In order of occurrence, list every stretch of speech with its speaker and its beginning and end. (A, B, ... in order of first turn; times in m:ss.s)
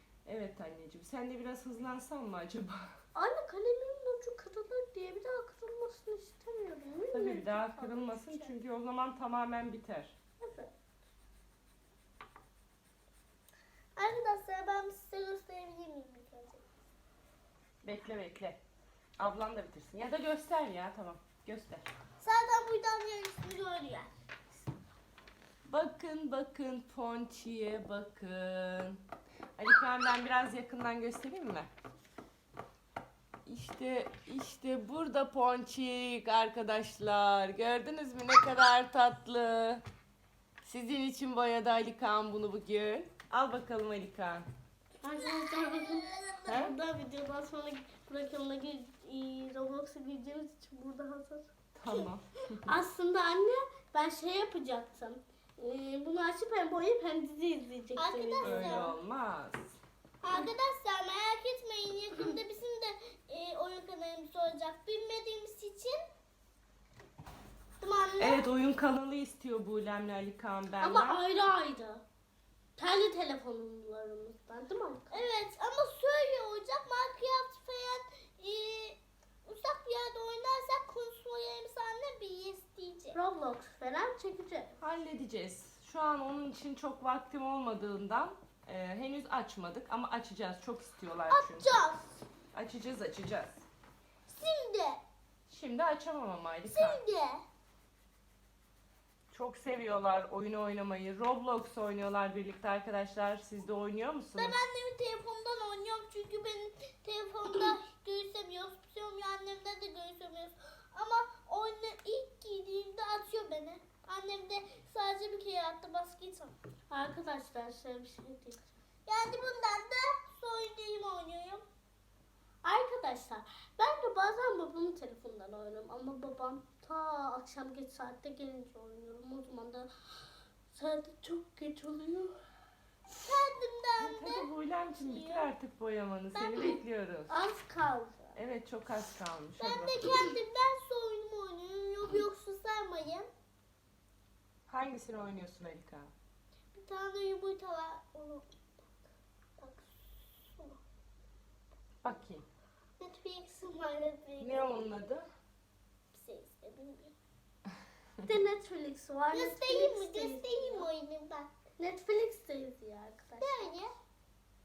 0:00.2-0:02.9 A
0:03.2-0:08.6 B
0:07.1-0:10.2 A
0:10.4-0:10.7 B
0:14.0-0:16.7 C
0:17.8-0:18.6 A
0:19.2-0:21.8 A
0:22.2-0:24.1 C
0:25.6-0:29.0 A
0:29.6-0:31.7 A
0:33.5-0:39.8 A
0:40.6-0:44.5 A
0:45.0-0:51.5 B
0:45.0-0:46.6 C
0:46.5-0:46.8 A
0:51.8-0:52.7 A
0:52.7-0:58.9 B
0:58.0-0:59.0 C
0:58.4-0:59.8 A
1:00.2-1:06.0 C
1:07.8-1:08.5 C
1:08.2-1:11.2 A
1:10.8-1:12.0 B
1:12.8-1:15.2 B
1:15.1-1:23.2 C
1:23.1-1:24.8 B
1:24.8-1:31.8 A
1:31.3-1:32.2 C
1:32.5-1:33.6 A
1:34.3-1:35.0 C
1:35.5-1:37.0 A
1:36.6-1:37.4 C
1:39.3-1:44.6 A
1:44.4-1:56.6 C
1:56.9-1:58.7 B
1:59.1-2:01.6 C
2:02.6-2:12.4 B
2:13.2-2:15.5 C
2:14.0-2:17.3 A
2:16.4-2:16.8 C
2:17.3-2:18.4 B
2:18.4-2:20.0 A
2:19.6-2:23.3 C
2:24.7-2:26.1 A
2:26.7-2:28.5 C
2:29.6-2:30.8 C
2:32.0-2:32.5 A
2:33.0-2:35.0 C
2:34.4-2:35.3 A
2:36.1-2:37.2 C
2:38.3-2:40.9 B
2:39.3-2:41.5 C
2:41.8-2:43.8 B
2:43.4-2:43.9 C